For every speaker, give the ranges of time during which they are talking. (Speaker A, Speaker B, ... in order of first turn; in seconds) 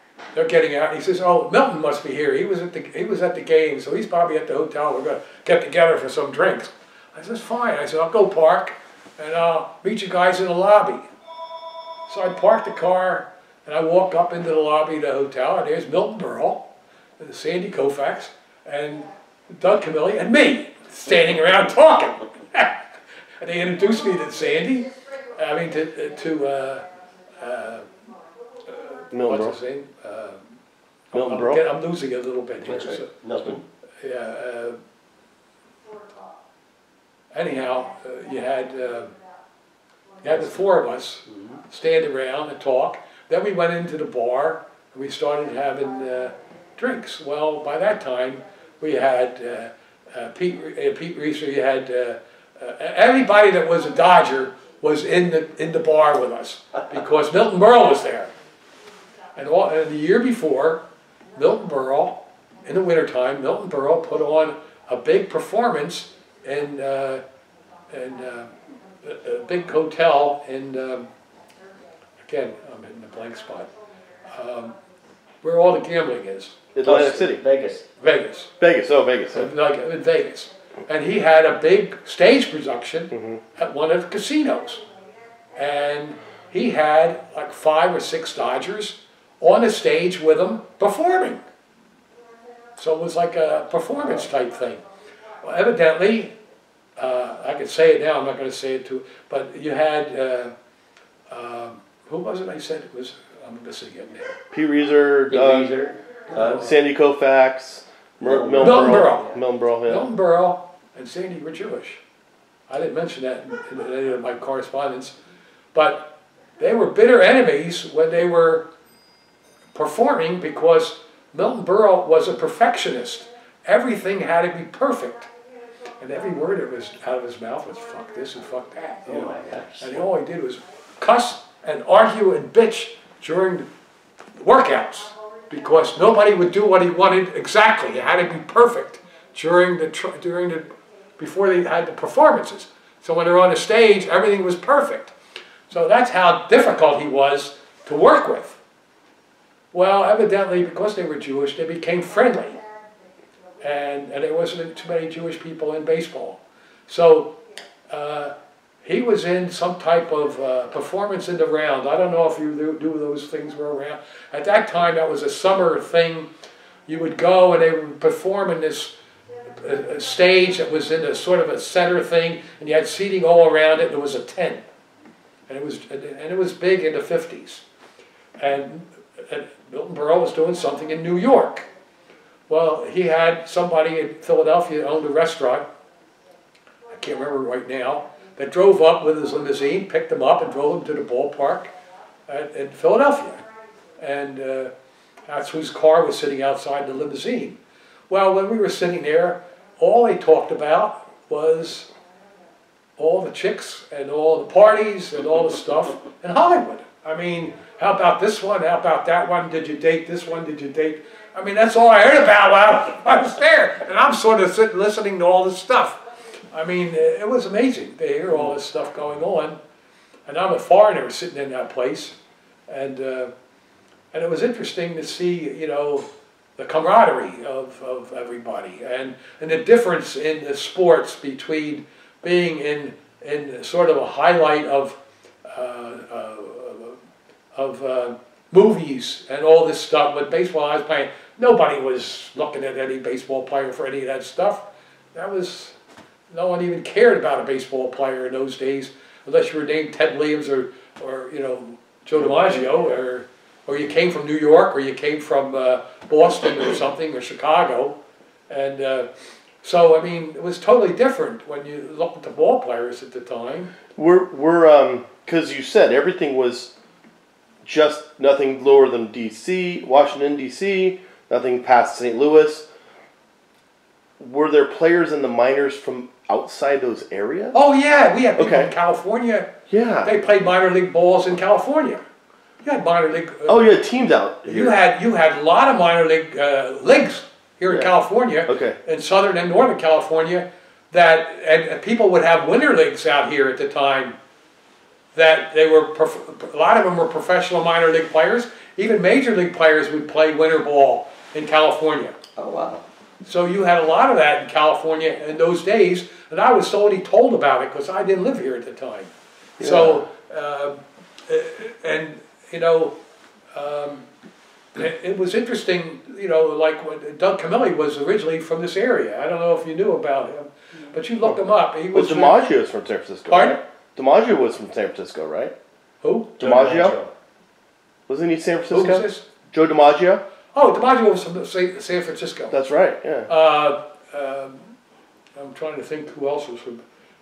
Speaker A: 0.3-11.1, 12.1-16.7, 17.2-22.8, 23.4-26.9, 27.4-27.9, 28.6-30.4, 31.1-33.1, 34.0-34.8, 37.3-39.1, 40.2-58.3, 59.4-67.2, 67.9-71.1, 72.2-73.7, 74.3-74.7, 75.4-76.5, 78.0-78.5, 79.3-84.8, 85.5-91.4, 92.8-94.8, 95.4-96.3, 97.0-100.5, 101.3-104.4, 108.6-109.2, 109.8-112.0, 112.7-115.2, 115.7-118.7, 119.7-125.3, 126.0-133.7, 134.4-145.1, 145.7-148.6, 149.7-152.6, 153.6-157.4, 157.9-158.3, 158.8-166.3, 166.9-168.9, 169.6-174.6, 175.5-177.6, 178.4-181.7, 182.5-185.7, 186.9-191.7, 192.3-193.4, 194.0-194.7, 195.3-197.6, 198.1-201.9, 203.0-216.0, 216.5-219.6, 220.3-222.1, 222.7-223.3, 224.1-226.1, 226.6-237.0, 237.5-245.8, 246.3-257.9, 258.5-259.1, 259.6-263.7, 277.5-282.0, 282.6-283.7, 284.5-294.1, 295.1-302.2, 303.2-312.9, 313.5-314.1, 314.7-322.4, 323.3-323.6, 326.0-326.4, 328.7-329.3, 330.5-332.6, 333.3-334.7, 335.4-336.8
Speaker B: 29.1-29.5, 31.1-31.6, 76.8-77.4, 78.6-79.5, 104.5-105.7, 106.5-110.1, 263.9-266.7, 267.6-272.7, 274.2-277.5, 278.4-278.7, 279.7-280.1, 283.5-284.8, 288.4-288.8, 309.6-310.0, 321.9-325.5, 326.4-327.0, 328.1-330.2, 332.5-333.3
Speaker C: 32.6-33.6, 41.3-41.5, 76.8-77.8, 105.3-106.7, 108.2-109.4, 129.1-130.0, 302.4-302.8, 326.4-327.1